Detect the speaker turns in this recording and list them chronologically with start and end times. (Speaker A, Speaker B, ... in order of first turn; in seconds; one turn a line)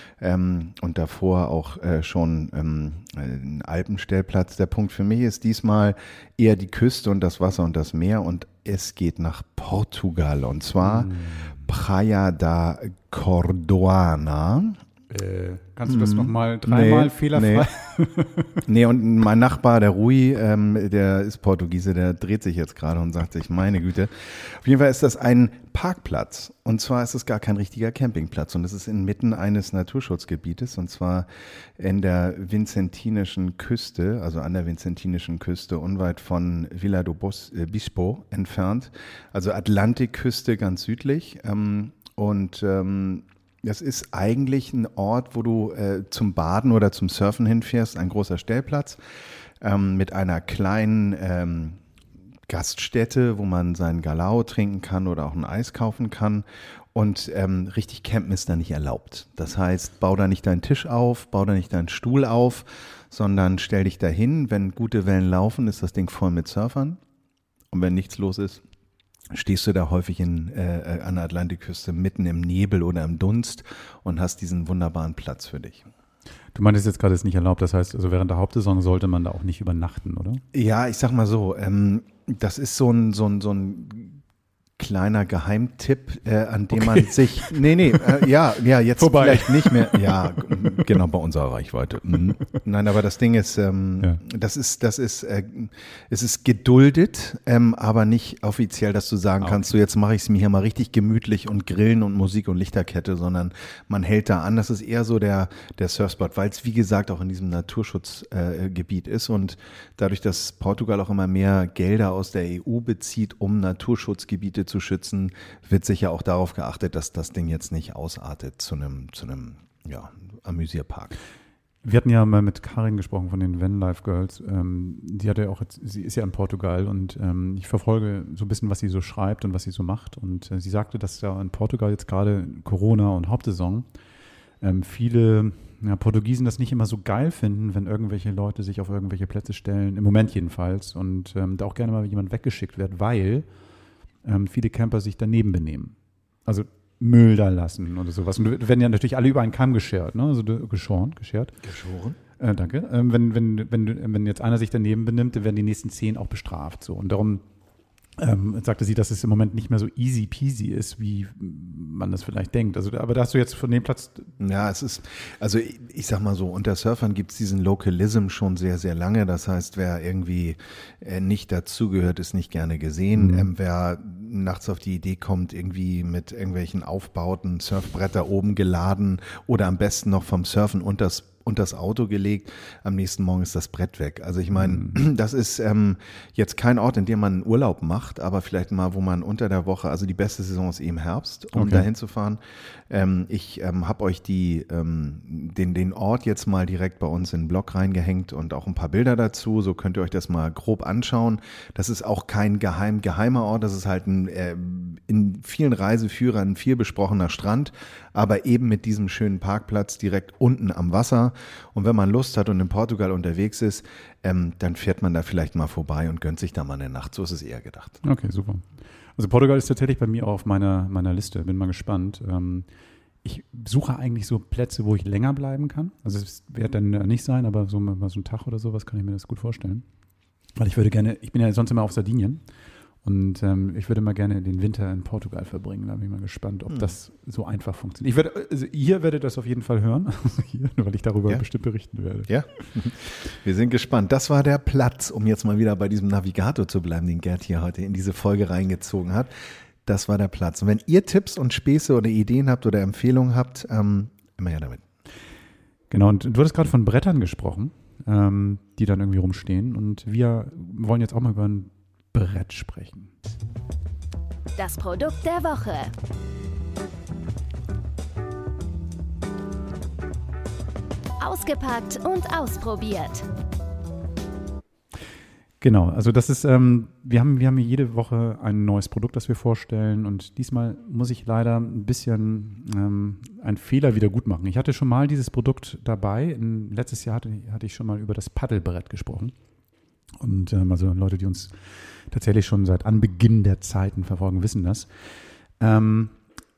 Speaker A: 0.2-11.1
Speaker B: 10.8-11.6
Speaker A: 11.6-14.8
Speaker B: 15.1-18.6
Speaker A: 15.9-17.7
Speaker A: 18.7-31.3
Speaker A: 31.8-49.0
Speaker A: 49.6-51.8
Speaker A: 52.5-67.0
Speaker A: 67.7-68.6
Speaker A: 69.3-75.9
Speaker B: 76.5-80.4
Speaker A: 80.5-84.2
Speaker A: 84.8-121.2
Speaker B: 86.7-88.2
Speaker B: 89.0-90.8
Speaker B: 99.4-99.7
Speaker B: 121.8-133.9
Speaker B: 134.6-143.5
Speaker B: 144.2-145.9
Speaker B: 146.5-151.6
Speaker A: 151.6-152.2
Speaker B: 152.4-157.4
Speaker B: 158.2-164.3
Speaker A: 164.4-218.0
Speaker B: 173.1-173.5
Speaker B: 184.6-185.0
Speaker B: 191.5-191.9
Speaker B: 218.0-222.7
Speaker B: 223.2-229.8
Speaker B: 230.6-232.4
Speaker B: 233.0-242.3
Speaker A: 242.3-249.3
Speaker A: 249.8-254.8
Speaker B: 255.9-263.1
Speaker C: 264.6-265.9
Speaker C: 271.2-273.2
Speaker B: 275.6-289.3
Speaker B: 290.2-294.9
Speaker B: 295.6-296.2